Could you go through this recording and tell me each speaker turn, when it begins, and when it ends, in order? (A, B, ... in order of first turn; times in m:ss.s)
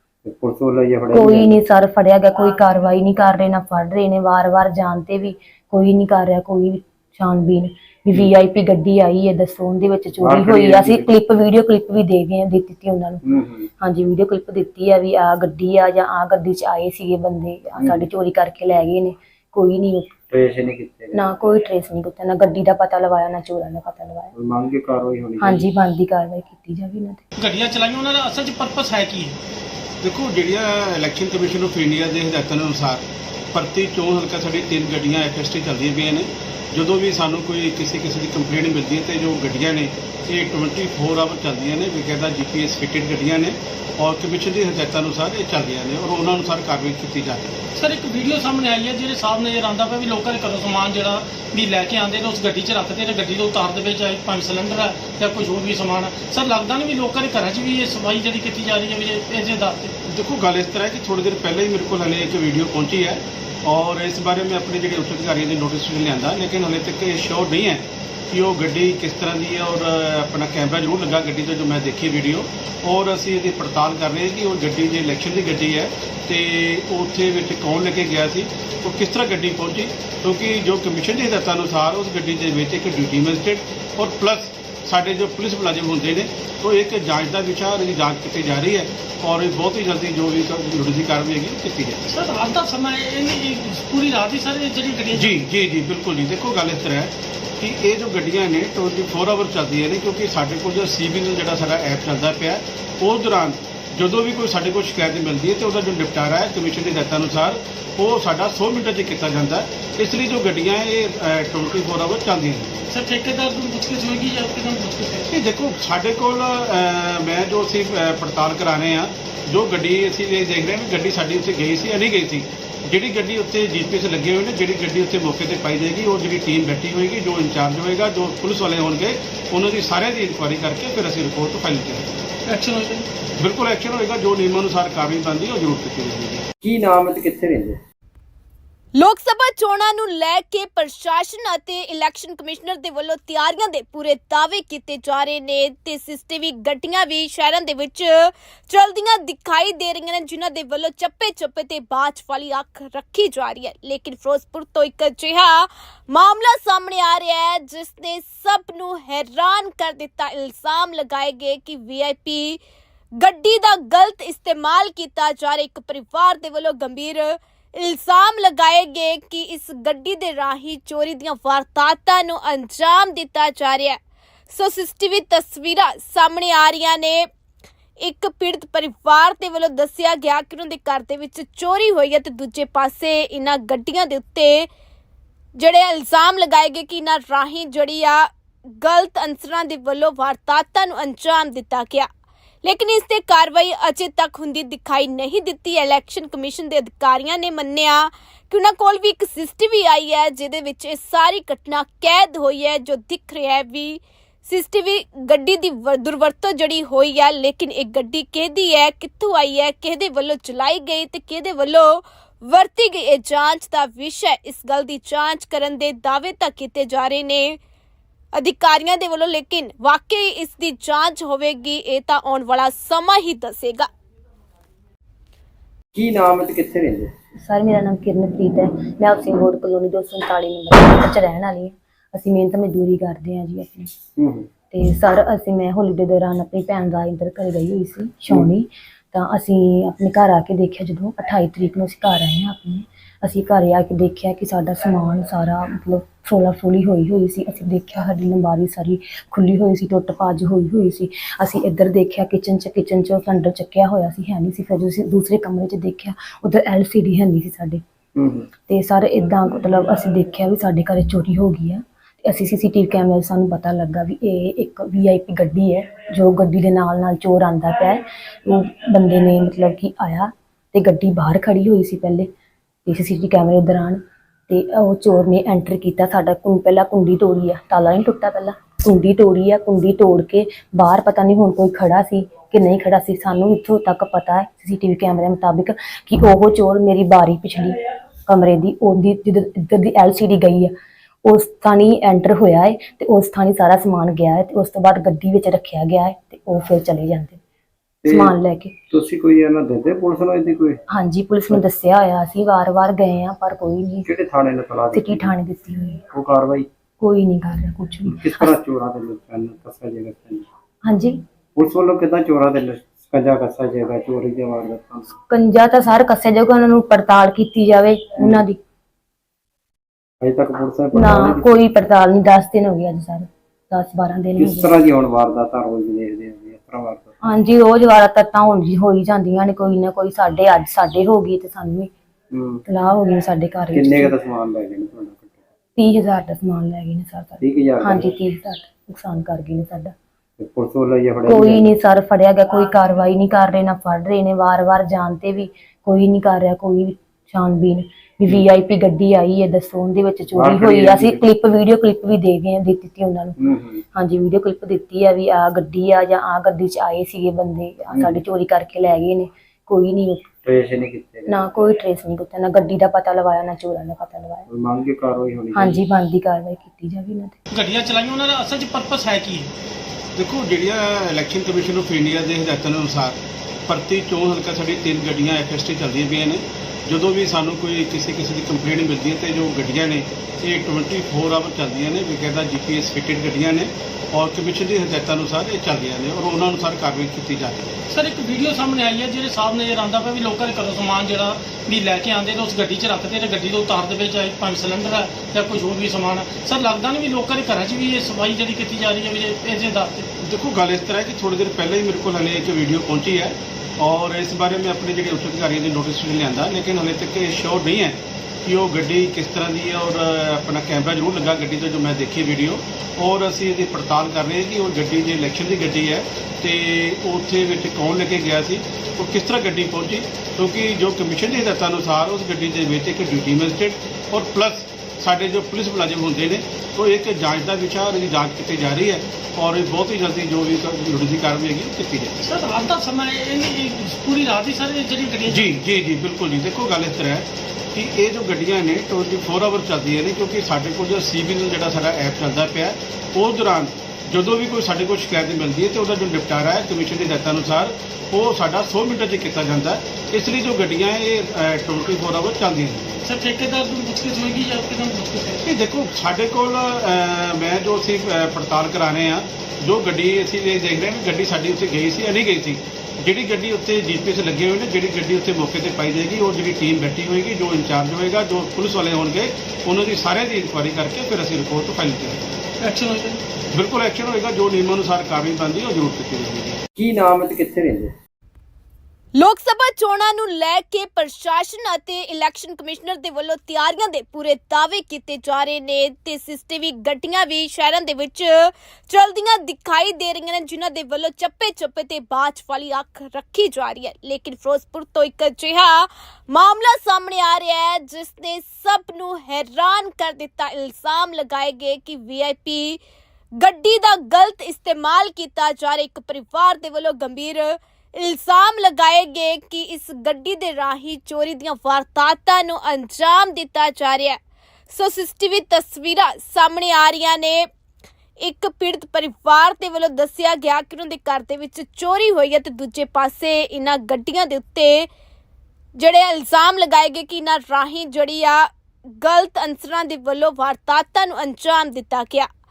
0:00.2-0:01.5 A
0:01.1-0:13.2 B
0:10.2-0:11.1 A
0:13.2-0:13.7 A
0:13.8-0:20.1 B
0:20.3-0:21.2 A
0:21.1-0:24.3 B
0:24.3-0:25.7 A
0:25.4-0:27.2 B
0:27.4-0:29.4 C
0:30.0-0:47.6 D
0:47.7-0:59.9 C
1:00.1-1:32.1 D
1:32.1-1:35.4 C
1:35.1-1:52.8 D
1:52.9-1:55.3 C
1:55.3-2:12.1 D
2:12.5-2:13.1 C
2:13.4-2:16.5 D
2:16.6-2:17.8 A
2:19.0-2:42.6 E
2:43.2-2:54.0 E
2:54.5-2:57.3 E
2:58.0-3:04.7 E
3:05.5-3:12.1 E
3:12.6-3:37.6 E
3:38.3-3:43.9 E
3:45.9-3:47.1 A
3:47.4-3:53.9 B
3:54.2-3:54.5 A
3:54.7-4:17.8 B
4:18.1-4:18.5 A
4:18.7-4:32.3 B
4:32.8-4:57.4 B
4:58.0-4:58.3 A
4:58.0-4:58.7 B
4:58.9-5:00.8 A
5:00.9-5:04.1 B
5:04.0-5:05.3 A
5:04.9-5:06.0 B
5:06.1-5:06.7 A
5:07.0-5:08.6 B
5:08.1-5:10.5 A
5:10.8-5:11.2 B
5:11.6-5:15.1 A
5:15.3-5:18.6 B
5:20.2-5:21.6 A
5:20.9-5:24.7 B
5:24.4-5:27.2 A
5:27.2-5:31.9 B
5:32.3-5:32.6 A
5:32.6-5:34.1 B
5:33.7-5:35.4 A
5:35.8-5:39.9 B
5:37.4-5:38.1 A
5:40.4-5:41.7 A
5:41.2-5:53.4 B
5:50.3-5:51.2 A
5:53.4-5:53.8 A
5:53.9-6:00.3 B
5:57.9-5:58.2 A
6:00.4-6:01.3 A
6:01.3-6:04.4 B
6:04.5-6:05.8 A
6:05.5-6:07.4 B
6:07.5-6:09.5 C
6:10.2-6:27.7 D
6:27.9-6:40.1 C
6:40.2-7:12.2 D
7:12.2-7:15.5 C
7:15.3-7:33.0 D
7:33.0-7:35.4 C
7:35.4-7:52.3 D
7:52.6-7:53.2 C
7:53.5-7:56.6 D
7:56.8-7:57.9 A
7:59.1-8:22.8 E
8:23.4-8:34.2 E
8:34.7-8:37.5 E
8:38.2-8:44.9 E
8:45.8-8:52.3 E